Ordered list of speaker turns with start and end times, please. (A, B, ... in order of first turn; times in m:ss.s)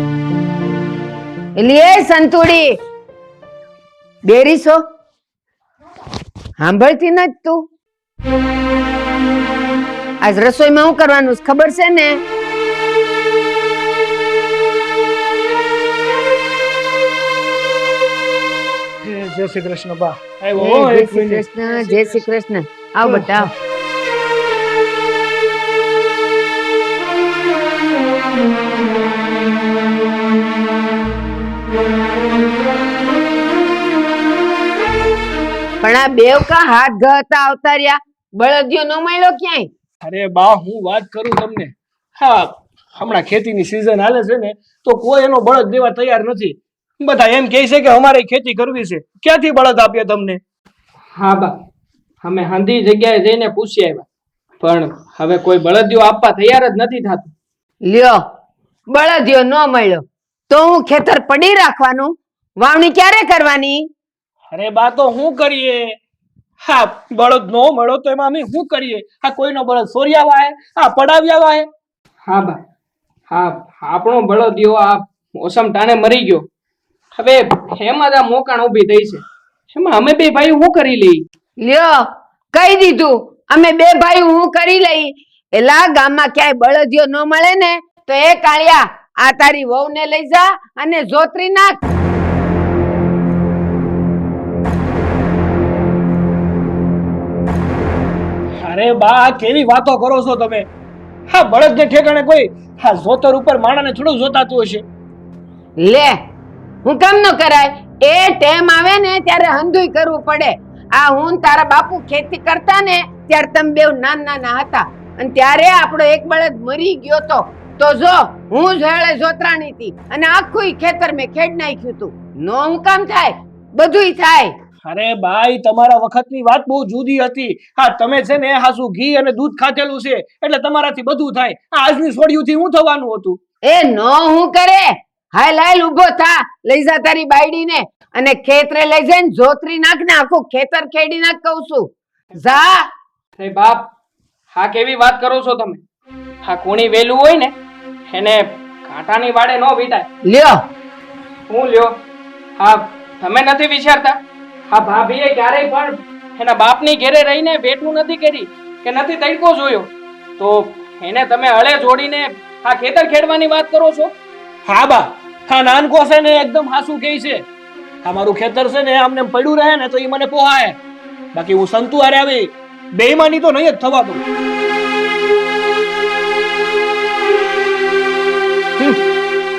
0:01.6-0:02.7 A
0:04.2-0:04.8 A
0:06.6-0:07.6 A
0:10.2-0:12.2 A
0:19.0-0:22.2 B
0:20.6-0:23.5 A
0:23.0-0:23.5 B
0:35.8-0:39.7 A
0:40.0-0:50.4 B
0:51.2-0:51.5 C
0:52.2-0:54.0 C
0:54.6-0:57.3 C
0:57.8-0:58.2 A
0:58.9-1:03.8 A
1:04.5-1:06.0 B
1:06.6-1:11.7 B
1:12.2-1:12.6 C
1:13.3-1:16.5 C
1:17.1-1:21.2 C
1:21.6-1:22.0 A
1:22.5-1:31.7 A
1:38.6-1:40.7 B
1:41.3-1:44.8 B
1:45.8-1:46.1 A
1:46.8-2:04.5 A
2:04.8-2:13.4 B
2:13.6-2:22.8 A
2:23.4-2:23.9 C
2:24.5-2:25.8 C
2:26.4-2:27.5 C
2:28.1-2:30.1 C
2:30.2-2:30.6 A
2:31.5-2:31.9 C
2:32.6-2:44.1 C
2:44.6-2:47.4 B
2:48.0-2:50.8 B
2:51.3-2:54.2 B